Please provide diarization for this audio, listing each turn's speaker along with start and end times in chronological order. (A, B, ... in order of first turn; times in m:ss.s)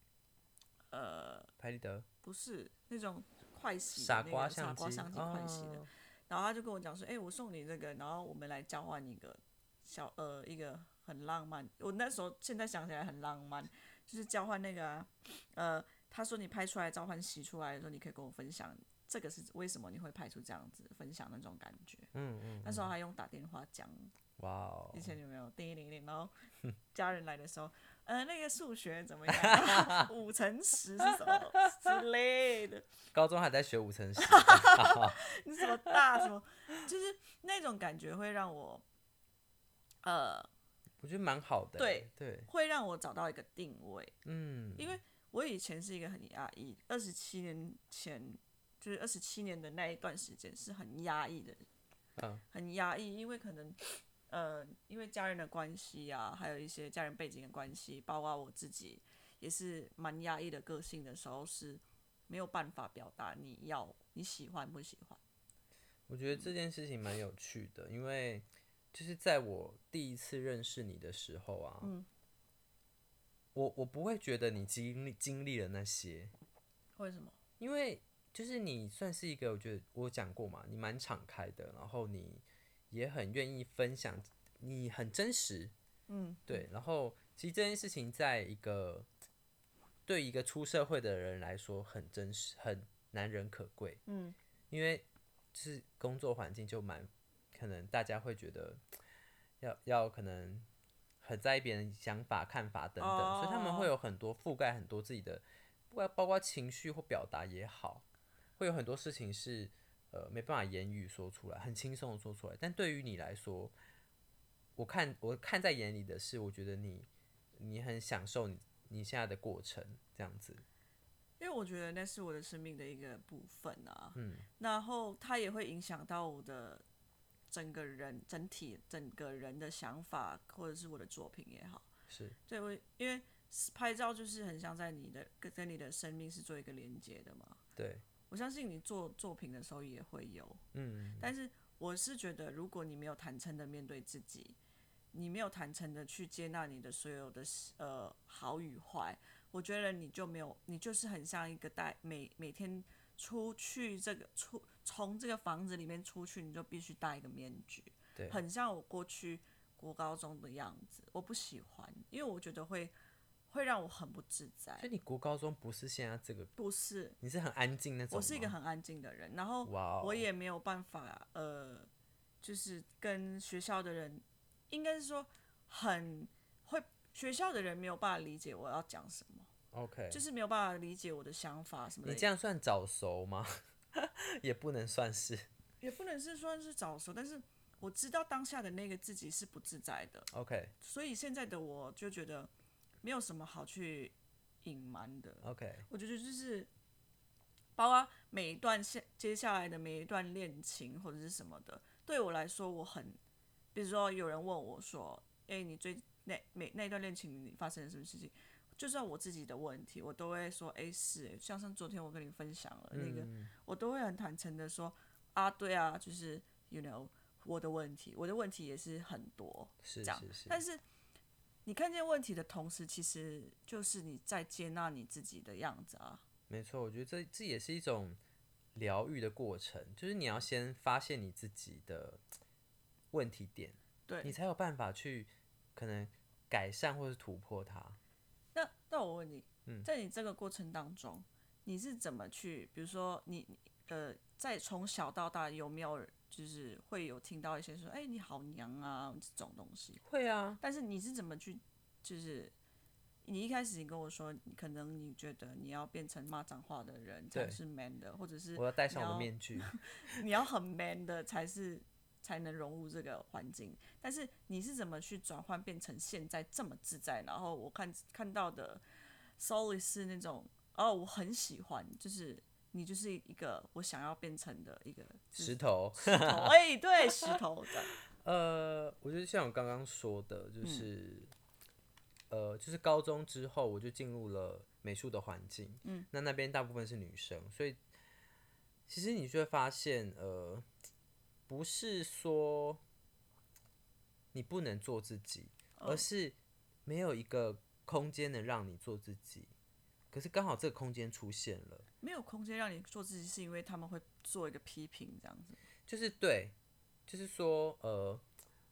0:00.9-0:01.5 A
0:01.6-0:02.1 B
0:02.2-0:22.1 A
0:03.9-0:05.9 B
0:22.1-0:22.9 B
0:22.6-0:24.1 A
0:24.4-0:25.2 B
0:24.9-0:26.3 A
0:26.9-0:32.8 A
0:29.3-0:30.1 B
0:31.0-0:31.4 B
0:33.1-0:35.2 B
0:34.2-0:38.8 A
0:40.0-0:40.5 A
0:41.0-0:42.5 B
0:41.8-0:44.2 A
0:44.2-0:45.0 B
0:44.8-0:51.6 A
0:52.2-0:52.4 B
0:52.5-1:05.2 A
1:06.1-1:11.9 B
1:11.8-1:12.1 A
1:13.6-1:16.3 B
1:17.0-1:17.4 A
1:17.6-1:25.7 B
1:26.1-1:26.6 A
1:26.5-1:29.1 B
1:30.1-1:34.0 B
1:34.1-1:34.4 A
1:34.7-1:38.8 B
1:39.6-1:40.7 B
1:41.2-1:48.0 B
1:43.0-1:43.9 A
1:48.6-1:53.7 B
1:54.8-2:00.6 B
2:01.4-2:06.8 A
2:04.2-2:04.5 B
2:07.5-2:11.9 A
2:12.1-2:12.4 B
2:12.5-2:17.6 A
2:17.8-2:18.0 B
2:18.3-2:20.6 A
2:20.7-2:21.3 B
2:21.2-2:24.6 A
2:25.1-2:42.9 A
2:43.5-2:44.9 A
2:44.8-2:46.5 B
2:46.6-2:47.2 A
2:47.2-2:48.5 B
2:48.1-2:51.9 A
2:49.6-2:50.3 B
2:52.4-2:59.5 A
2:59.7-3:00.2 B
3:00.1-3:02.3 A
3:02.0-3:05.5 B
3:05.8-3:10.3 A
3:10.3-3:10.7 B
3:10.8-3:12.5 A
3:13.0-3:16.7 A
3:15.4-3:15.9 B
3:17.8-3:23.2 A
3:23.7-3:40.8 A
3:32.9-3:33.5 B
3:39.8-3:40.6 B
3:41.6-3:46.2 A
3:46.5-3:48.2 B
3:48.8-3:52.2 B
3:53.1-3:58.0 B
3:54.1-3:54.4 A
3:58.6-4:10.0 A
4:10.0-4:10.6 B
4:10.6-4:12.5 A
4:13.2-4:28.8 A
4:17.3-4:17.6 B
4:18.6-4:20.2 B
4:29.4-4:38.0 A
4:35.4-4:36.6 B
4:38.1-4:41.3 B
4:40.6-4:40.9 A
4:42.3-4:47.8 B
4:48.9-4:50.7 B
4:51.5-4:52.8 B
4:54.3-4:59.5 B
4:55.8-4:56.0 A
5:00.1-5:01.9 B
5:02.0-5:05.6 A
5:05.9-5:06.6 B
5:07.1-5:08.2 B